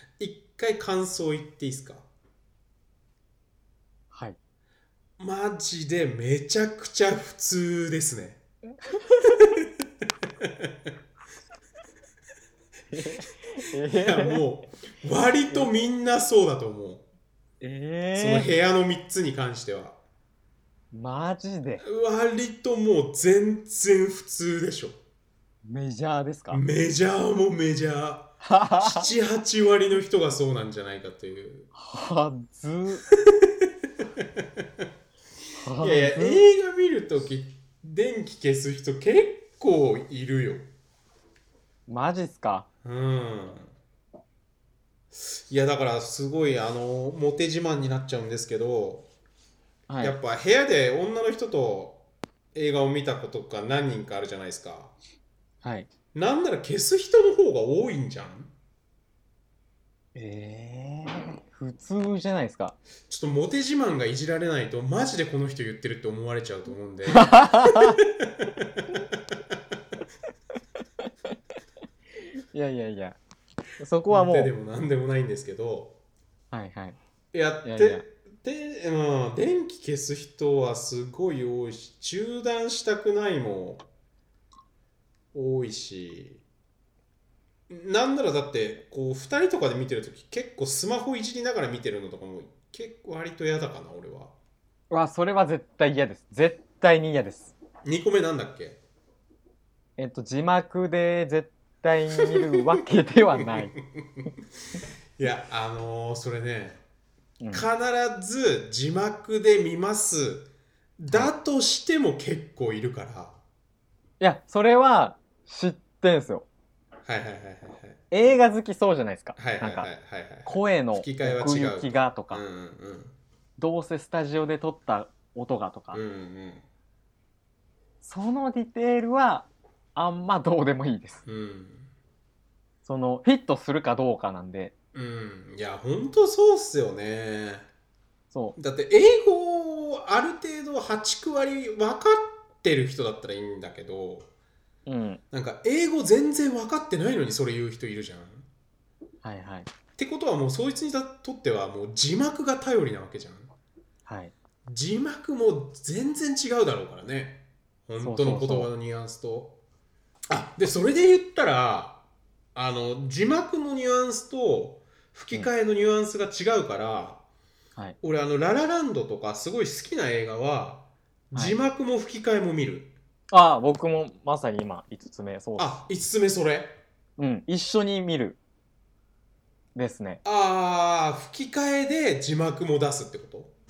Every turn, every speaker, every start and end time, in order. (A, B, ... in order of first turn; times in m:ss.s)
0:00.2-0:02.0 A
0:05.2-0:08.4 A
0:08.9-0:09.4 B
0:09.4-0:09.7 A
0:10.4-0:10.9 A
0:12.9-0:14.4 B
0:13.9-0:17.0 A
0:17.6-0:18.5 B
0:18.1-0:20.0 A
0:20.9-0:21.8 B
0:21.8-0:25.0 A
0:25.6-0:26.6 B
0:26.5-0:31.7 A
0:28.4-0:29.1 B
0:31.7-0:33.0 B
0:33.1-0:34.9 A
0:35.6-0:36.4 B
0:35.8-0:40.7 A
0:41.9-0:42.7 B
0:42.8-0:43.7 A
0:45.1-0:49.1 A
0:49.9-0:50.2 B
0:50.0-0:54.9 A
0:55.6-0:55.9 B
0:56.1-0:58.5 A
1:00.1-1:02.8 B
1:03.1-1:09.8 A
1:07.1-1:08.0 B
1:12.5-1:13.2 B
1:13.8-1:14.5 B
1:14.1-1:16.0 A
1:16.5-1:17.0 B
1:17.3-1:23.8 A
1:17.6-1:18.0 B
1:25.3-1:26.4 A
1:27.7-1:34.3 A
1:34.9-1:37.6 B
1:37.8-1:38.8 A
1:40.0-1:43.8 B
1:43.4-1:44.3 A
1:45.2-1:46.8 A
1:47.4-1:47.7 B
1:47.5-1:53.4 A
1:54.2-1:56.5 B
1:57.0-1:58.0 A
1:58.1-1:59.9 B
1:59.4-2:03.1 A
2:00.4-2:02.4 B
2:03.6-2:06.0 B
2:05.9-2:06.6 A
2:08.0-2:11.2 B
2:11.2-2:11.9 A
2:12.8-2:14.7 B
2:14.9-2:17.7 A
2:18.3-2:18.6 B
2:18.6-2:24.3 A
2:24.8-2:25.2 B
2:25.3-2:28.4 A
2:29.2-2:29.7 B
2:30.0-2:33.5 A
2:34.0-2:34.3 B
2:34.7-2:39.6 A
2:38.0-2:38.7 B
2:40.3-2:47.2 A
2:48.0-2:52.9 A
2:53.3-2:55.7 B
2:55.6-2:56.8 A
2:57.2-2:58.4 B
2:59.7-3:00.2 B
3:00.2-3:03.5 A